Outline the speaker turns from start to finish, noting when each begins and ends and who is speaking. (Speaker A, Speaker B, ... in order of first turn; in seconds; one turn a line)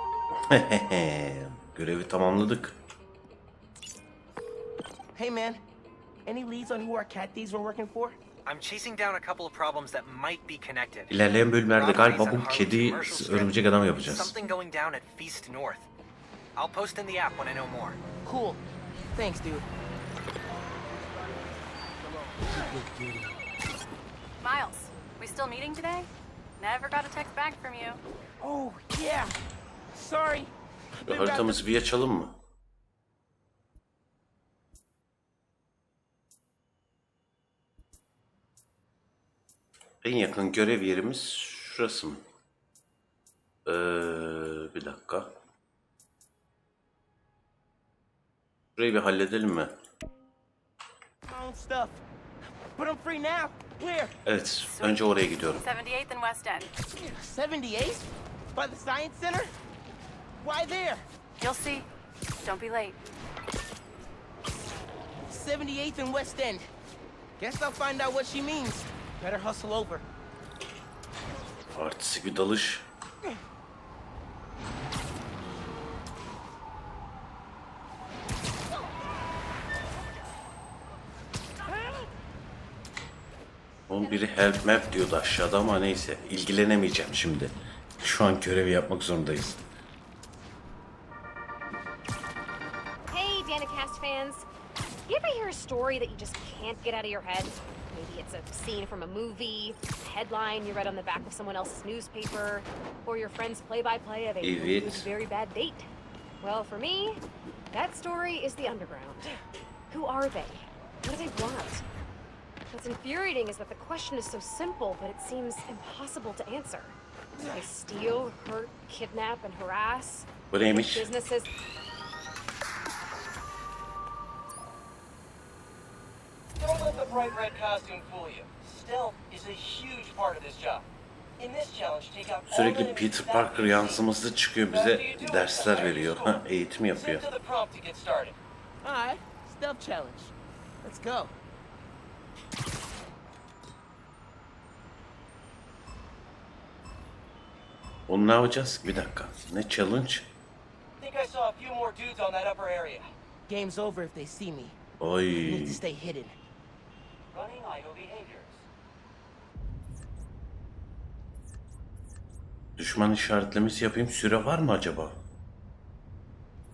Speaker A: 0.5-2.8
Speaker B: 5.1-5.6
Speaker B: 6.2-8.2
Speaker C: 8.4-11.2
Speaker A: 11.1-14.4
Speaker C: 11.8-15.9
Speaker C: 16.6-18.0
Speaker B: 18.2-18.6
Speaker B: 19.1-19.7
Speaker B: 22.5-23.4
Speaker D: 24.4-28.0
Speaker B: 28.4-29.4
Speaker B: 29.9-31.6
Speaker A: 31.1-32.4
Speaker A: 40.0-42.2
Speaker A: 43.6-45.3
Speaker A: 48.8-49.7
Speaker B: 51.2-52.0
Speaker B: 52.8-54.1
Speaker A: 54.2-55.6
Speaker D: 54.6-56.7
Speaker B: 57.0-59.5
Speaker B: 60.4-61.1
Speaker D: 61.4-63.0
Speaker B: 65.3-66.7
Speaker B: 67.4-70.0
Speaker A: 71.7-72.8
Speaker A: 83.9-89.6
Speaker E: 93.1-94.5
Speaker E: 95.1-105.9
Speaker A: 104.4-105.1
Speaker E: 106.4-109.3
Speaker E: 109.9-111.8
Speaker E: 112.7-121.5
Speaker A: 120.5-121.1
Speaker F: 126.6-130.8
Speaker F: 131.4-134.0
Speaker A: 132.5-137.2
Speaker F: 134.7-136.4
Speaker F: 136.9-138.4
Speaker B: 138.8-141.4
Speaker A: 148.1-150.3
Speaker F: 151.0-153.1
Speaker B: 153.5-154.8
Speaker A: 155.0-155.8
Speaker B: 155.4-156.4
Speaker F: 157.3-158.7
Speaker A: 162.8-165.2